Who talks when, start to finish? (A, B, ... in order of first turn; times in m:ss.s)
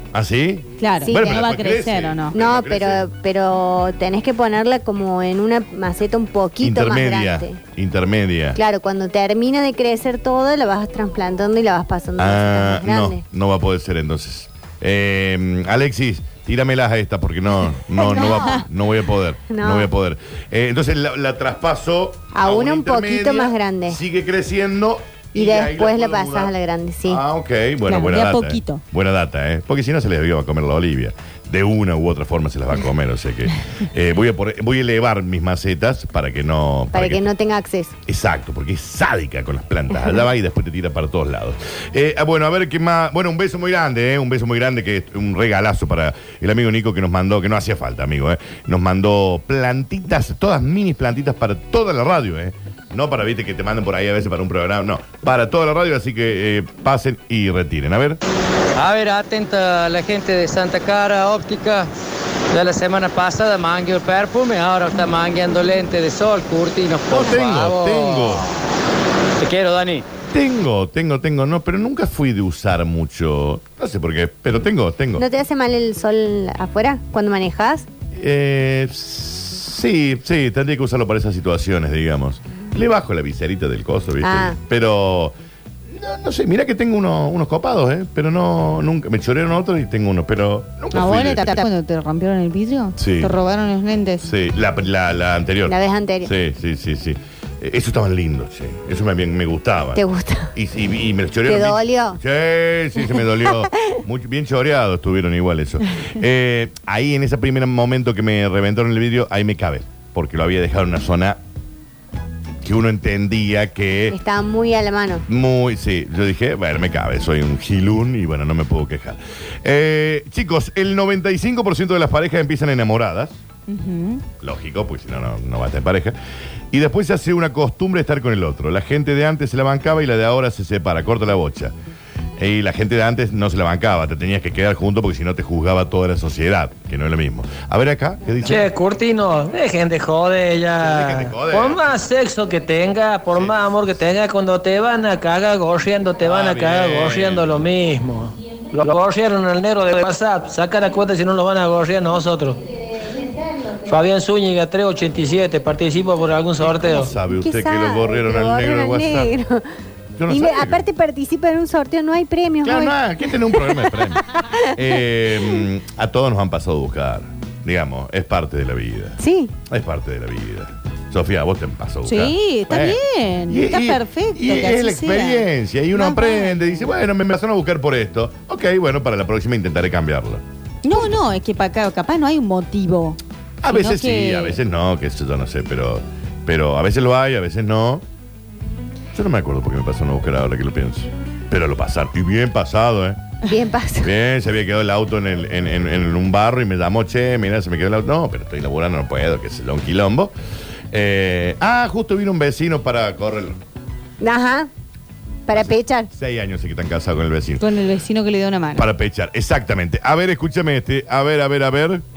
0:00.1-0:03.0 A
0:00.8-0:02.4 B
0:01.1-0:01.4 C
0:02.3-0:07.6 C
0:06.6-0:08.6 A
0:08.6-0:13.2 C
0:12.2-0:26.5 A
0:18.0-0:18.6 C
0:18.2-0:18.6 B
0:19.5-0:19.9 C
0:22.3-0:24.0 C
0:25.4-0:27.2 C
0:27.1-0:37.2 A
0:27.9-0:28.8 B
0:36.9-0:38.0 C
0:38.1-0:58.2 A
0:58.8-1:01.9 D
1:02.5-1:08.4 D
1:07.1-1:08.4 A
1:09.4-1:10.0 D
1:10.3-1:15.2 A
1:15.2-1:17.9 C
1:18.1-1:25.3 A
1:24.2-1:24.6 C
1:25.9-1:31.6 A
1:30.9-1:34.3 B
1:33.0-1:33.3 A
1:34.2-1:40.0 A
1:35.7-1:36.3 C
1:40.0-1:40.5 C
1:40.5-1:51.4 A
1:41.5-1:42.2 C
1:52.6-1:54.2 A
1:54.1-1:55.2 C
1:55.3-2:03.4 A
2:03.7-2:04.2 B
2:04.4-2:06.2 A
2:06.7-2:11.7 A
2:12.4-2:18.7 A
2:18.4-2:32.6 D
2:20.8-2:21.8 A
2:23.3-2:23.6 A
2:26.2-2:27.6 A
2:33.9-2:37.1 D
2:36.7-2:39.3 A
2:37.4-2:39.6 C
2:40.2-2:40.8 A
2:40.3-2:44.0 C
2:42.6-2:44.2 A
2:44.7-2:53.0 A
2:49.2-2:49.5 C
2:52.1-2:56.8 B
2:53.5-3:00.4 A
3:00.8-3:04.6 B
3:03.6-3:08.0 A
3:09.1-3:13.2 A
3:13.4-3:14.1 C
3:14.0-3:20.3 A
3:20.9-3:23.6 A
3:24.2-3:24.7 C
3:25.5-3:26.1 C
3:25.5-3:27.6 A
3:27.6-3:28.8 B
3:28.8-3:32.0 A